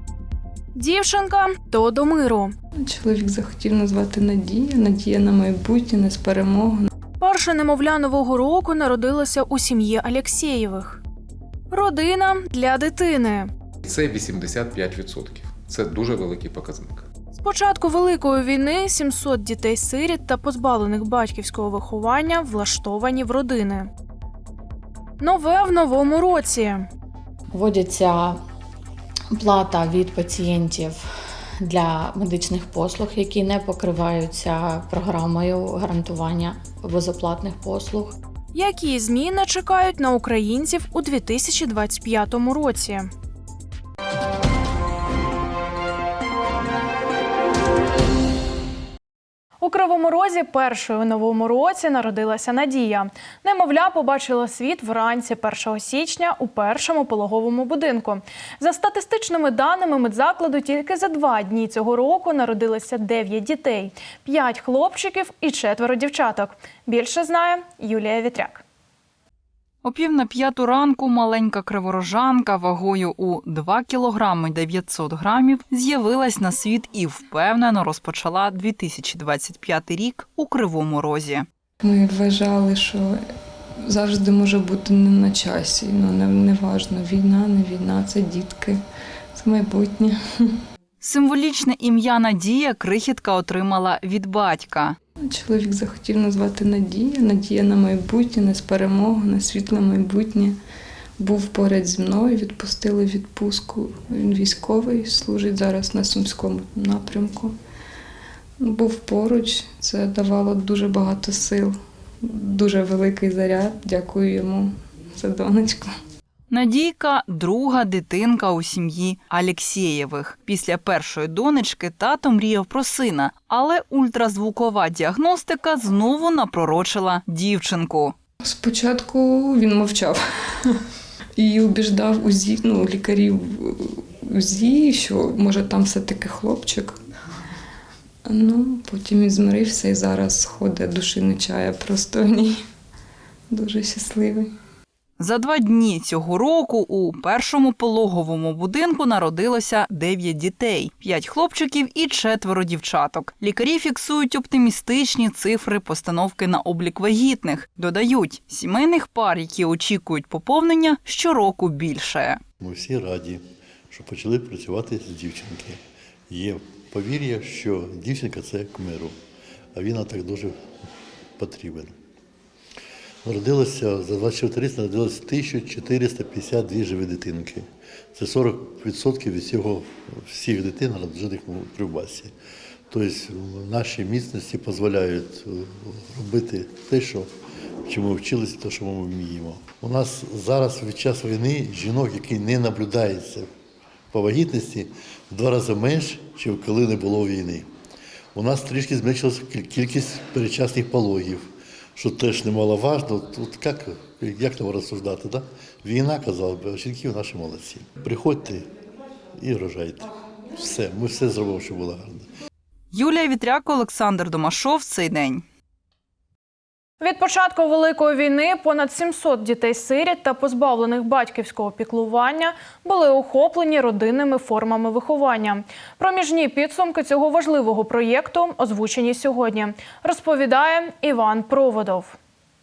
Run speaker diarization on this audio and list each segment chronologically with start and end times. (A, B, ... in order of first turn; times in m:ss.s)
0:00.8-0:02.6 A
0:02.8-0:06.9 B
0:07.2-0:11.0 A
0:11.7-0:13.5 A
0:13.8-0:17.1 C
0:17.4-0:23.9 A
0:25.2-0:26.9 A
0:27.5-0:28.4 D
0:29.3-0:31.1 D
0:31.6-0:38.2 D
0:38.5-0:43.1 A
0:49.6-1:08.6 A
1:09.8-1:21.5 E
1:21.8-1:23.2 B
1:23.8-1:28.8 B
1:29.3-1:30.6 B
1:31.0-1:35.0 E
1:35.3-1:40.6 B
1:41.2-1:47.6 B
1:48.6-1:55.9 B
1:56.5-2:08.2 E
2:08.4-2:10.8 B
2:11.4-2:17.0 B
2:18.3-2:22.6 B
2:23.5-2:24.5 B
2:25.2-2:42.4 E
2:42.6-2:49.2 F
2:49.7-2:50.7 F
2:51.4-2:52.0 F
2:53.2-3:02.3 F
3:02.9-3:07.3 F
3:07.8-3:13.5 F
3:14.1-3:17.7 F
3:18.3-3:28.7 F
3:29.4-3:32.3 F
3:32.9-3:35.4 E
3:37.0-3:52.2 A